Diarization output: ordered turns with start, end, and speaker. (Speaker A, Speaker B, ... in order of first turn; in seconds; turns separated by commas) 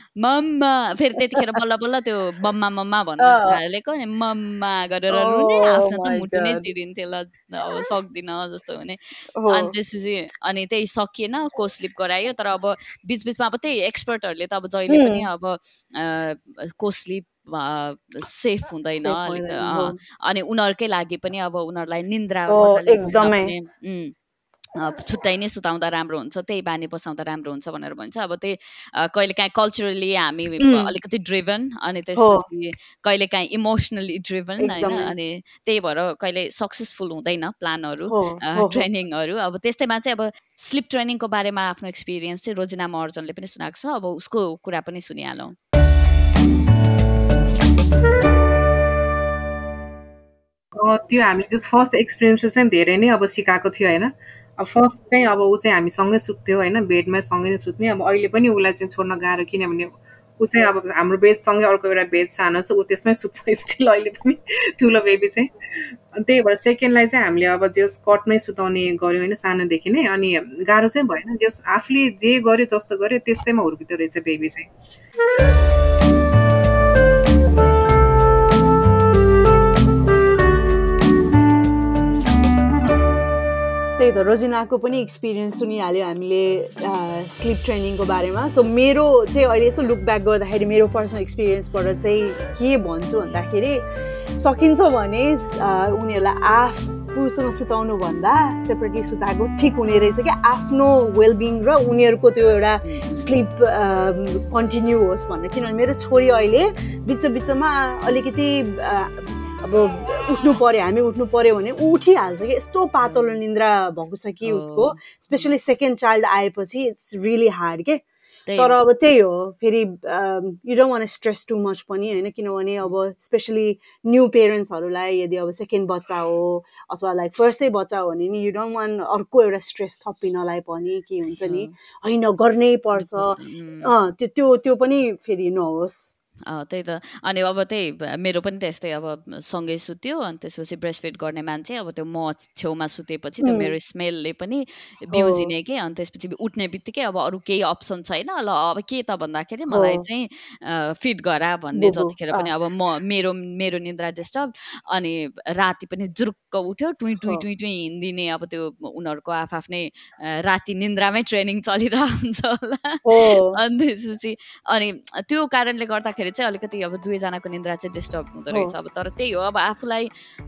Speaker A: 0.2-24.1, Speaker B: 3.2-3.6, Speaker B: 5.1-6.7, Speaker B: 9.4-9.7, Speaker B: 14.9-15.2, Speaker B: 19.0-20.0, Speaker B: 22.5-23.5, Speaker A: 24.8-45.6, Speaker B: 30.6-30.9, Speaker B: 32.2-32.5, Speaker B: 34.6-35.1, Speaker B: 38.1-38.9, Speaker C: 50.8-65.5, Speaker C: 66.2-74.7, Speaker B: 84.0-93.9, Speaker B: 94.4-118.0, Speaker A: 102.8-103.3, Speaker A: 113.0-113.4, Speaker A: 114.4-115.5, Speaker A: 118.5-118.8, Speaker B: 118.6-136.1, Speaker A: 131.4-131.8, Speaker A: 132.9-133.9, Speaker A: 136.5-170.1, Speaker B: 143.4-143.7, Speaker B: 145.1-145.5, Speaker B: 149.7-150.1, Speaker B: 151.8-152.5, Speaker B: 163.1-163.6